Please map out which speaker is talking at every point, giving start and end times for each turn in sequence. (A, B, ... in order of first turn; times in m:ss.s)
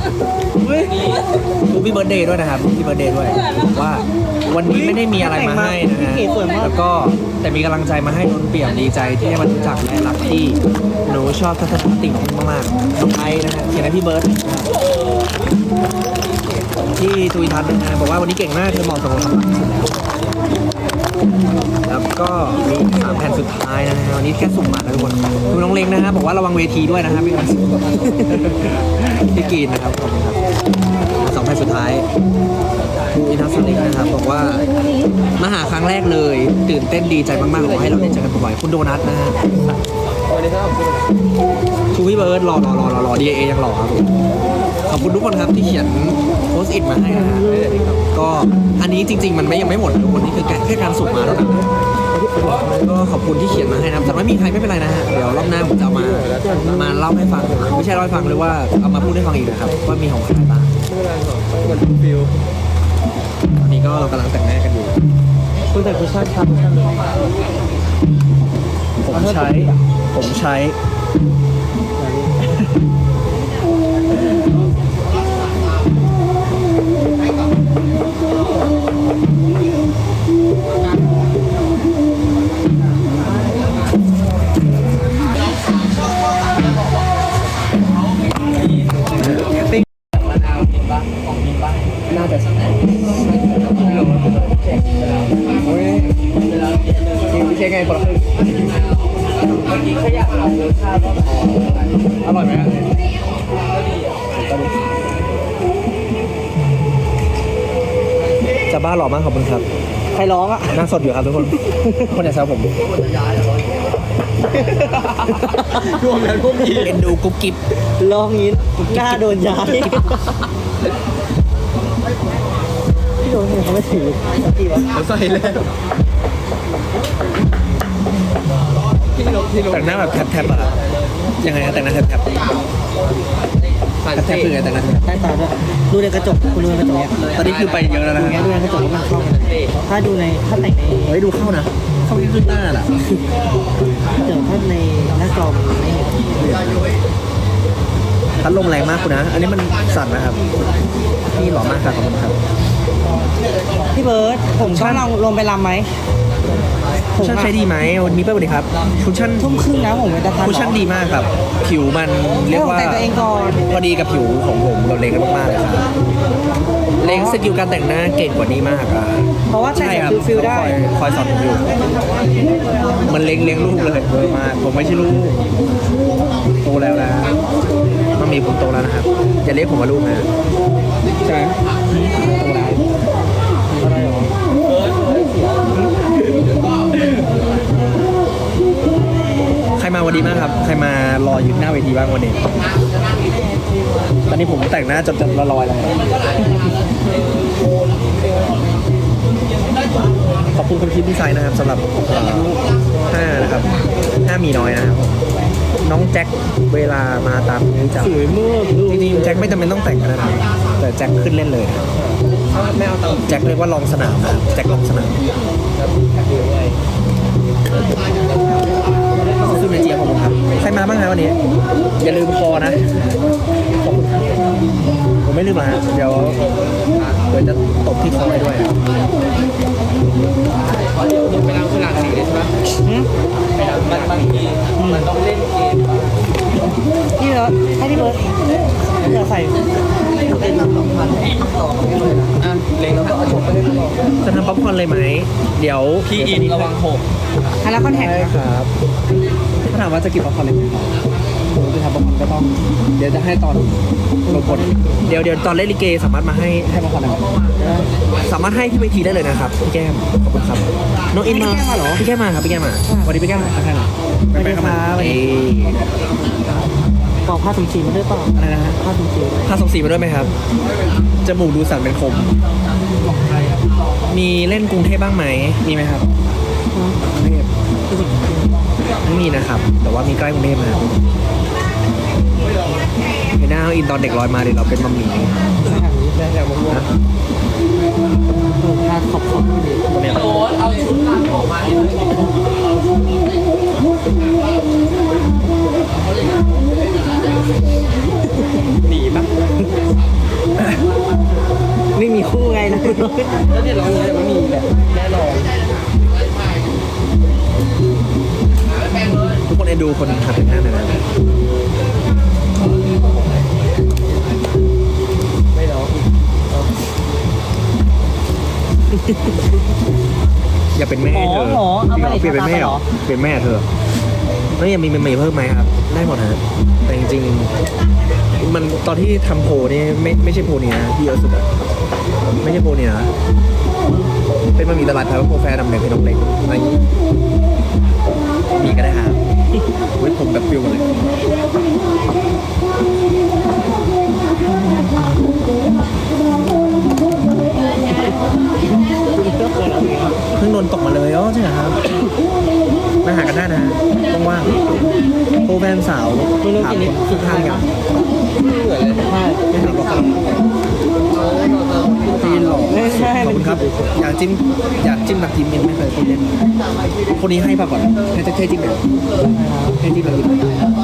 0:00.6-0:01.0 A
0:01.7-0:14.7 A
0:04.6-0:06.7 B
0:17.0-0:19.9 A
0:21.9-0:30.4 A
0:31.2-0:32.1 A
0:33.1-0:34.6 A
0:35.4-0:39.4 A
0:40.3-0:41.0 C
0:41.9-0:44.1 A
0:44.8-0:47.6 A
0:47.1-0:47.9 B
0:47.7-0:48.0 C
0:48.1-0:51.7 A
0:52.2-0:52.6 B
0:52.5-1:00.7 A
0:56.2-0:56.5 C
0:56.4-0:56.8 B
1:00.9-1:02.3 C
1:03.6-1:05.0 A
1:05.7-1:07.0 B
1:09.0-1:10.8 A
1:09.1-1:09.8 B
1:12.0-1:12.4 B
1:31.5-1:31.8 C
1:32.1-1:32.7 A
1:33.2-1:35.3 C
1:35.6-1:36.2 A
1:37.3-1:38.2 A
1:39.6-1:41.7 C
1:41.3-1:42.9 A
1:44.3-1:44.9 A
1:48.7-1:49.6 A
1:50.1-1:50.8 B
1:50.7-1:52.8 A
1:51.8-1:52.1 B
1:53.1-1:53.5 C
1:55.1-1:57.0 C
1:56.5-1:57.6 A
1:58.0-2:00.3 B
1:58.8-2:00.0 A
2:03.2-2:05.0 B
2:04.9-2:05.7 C
2:09.2-2:10.7 C
2:09.7-2:10.7 A
2:11.4-2:12.3 A
2:14.0-2:14.5 C
2:14.1-2:15.0 A
2:15.0-2:17.2 B
2:17.2-2:18.3 C
2:17.3-2:18.4 A
2:18.1-2:21.2 B
2:19.4-2:19.7 C
2:21.0-2:22.9 A
2:24.1-2:26.3 B
2:26.4-2:26.9 A
2:28.4-2:30.4 A
2:31.3-2:32.4 A
2:33.9-2:35.9 B
2:34.6-2:35.1 A
2:37.2-2:37.5 B
2:37.2-2:39.6 A
2:39.4-2:40.8 B
2:40.4-2:43.1 A
2:42.5-2:43.6 B
2:43.7-2:45.9 A
2:47.0-2:51.7 A
2:47.0-2:47.4 B
2:49.5-2:50.8 B
2:53.0-2:55.4 A
2:56.6-2:57.4 A
2:58.2-3:00.3 A
3:01.2-3:01.5 A
3:02.0-3:02.2 B
3:02.1-3:02.8 A
3:03.8-3:04.2 A
3:03.8-3:04.3 B
3:04.6-3:05.7 C
3:09.8-3:12.4 A
3:14.3-3:16.0 A
3:20.5-3:25.2 A
3:25.8-3:28.3 A
3:28.0-3:29.4 B
3:28.9-3:31.8 A
3:31.9-3:33.4 C
3:33.3-3:35.2 A
3:35.8-3:36.8 C
3:39.4-3:41.4 A
3:42.0-3:43.1 A
3:43.8-3:44.3 A
3:45.2-3:46.4 A
3:46.3-3:47.1 C
3:47.3-3:48.8 A
3:50.9-3:52.5 C
3:52.8-3:53.1 B
3:53.6-3:56.0 C
3:54.8-3:55.1 B
3:57.2-3:58.2 B
3:59.0-3:59.6 B
4:00.3-4:02.4 B
4:02.4-4:04.2 C
4:04.2-4:06.7 A
4:06.1-4:07.0 C
4:07.6-4:08.3 B
4:07.8-4:08.7 A
4:09.7-4:11.0 A
4:11.5-4:17.3 A
4:14.2-4:15.2 B
4:17.6-4:17.9 B
4:18.2-4:25.9 A
4:21.1-4:22.0 B
4:22.8-4:23.5 B
4:24.3-4:25.2 B
4:27.2-4:29.6 B
4:28.3-4:28.8 A
4:29.4-4:30.3 A
4:31.2-4:32.3 A
4:34.0-4:36.1 A
4:36.7-4:37.0 B
4:37.0-4:37.5 A
4:39.0-4:40.9 A
4:43.4-4:45.4 A
4:45.6-4:46.2 B
4:46.2-4:46.8 C
4:46.6-4:46.9 A
4:48.6-4:49.8 B
4:49.9-4:50.5 A
4:50.4-4:51.7 C
4:58.8-4:59.3 C
5:01.9-5:03.4 B
5:03.5-5:05.5 C
5:09.4-5:11.0 A
5:15.5-5:16.0 C
5:20.7-5:23.7 A
5:21.1-5:22.8 B
5:24.5-5:27.5 A
5:28.4-5:31.5 A
5:32.4-5:33.1 A
5:34.5-5:36.8 A
5:38.5-5:39.2 A
5:40.0-5:40.9 A
5:49.0-5:50.2 B
5:50.4-5:51.8 A
5:53.0-5:54.6 A
5:55.4-5:57.7 A
5:56.4-5:57.6 B
5:58.4-5:59.1 C
5:59.0-6:00.4 B
5:59.5-6:00.4 A
6:01.1-6:02.7 C
6:02.2-6:06.4 A
6:02.6-6:03.9 B
6:07.1-6:08.8 A
6:09.3-6:09.8 B
6:09.8-6:10.4 A